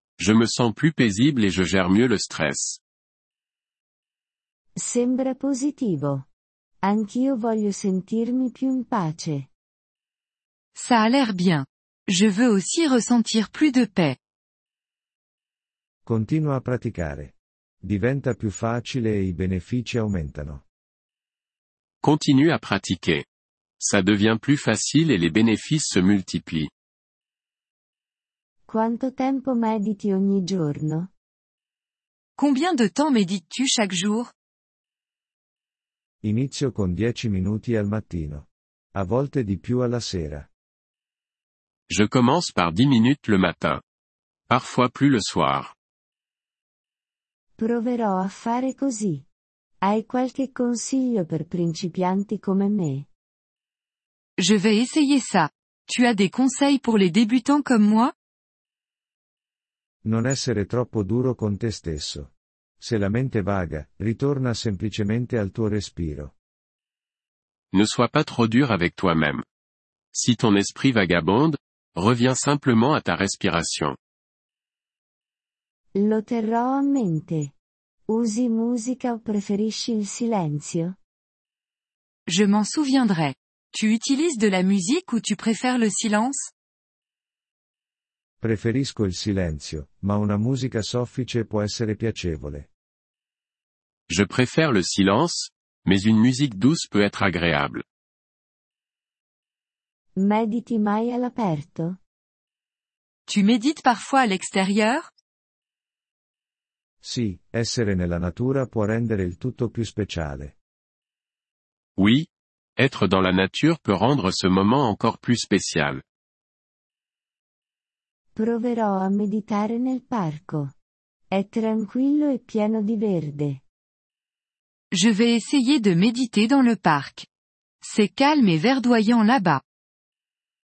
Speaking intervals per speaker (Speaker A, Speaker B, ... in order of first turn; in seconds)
Speaker A: 0.2-2.8, 22.0-23.2, 23.8-26.7, 41.9-43.8, 44.5-45.7, 67.7-69.4, 70.1-74.0, 94.1-97.8, 112.0-116.0
Speaker B: 4.8-6.2, 6.8-9.5, 28.6-31.1, 47.6-49.2, 49.8-53.0, 75.9-77.5, 78.1-81.0, 100.2-102.0, 118.3-120.7, 121.3-123.6
Speaker C: 10.7-14.2, 32.4-34.3, 54.4-58.1, 82.3-86.5, 103.3-105.1, 124.9-127.3, 127.8-129.6
Speaker D: 16.1-20.6, 36.2-40.5, 60.0-66.3, 88.4-92.7, 107.0-110.5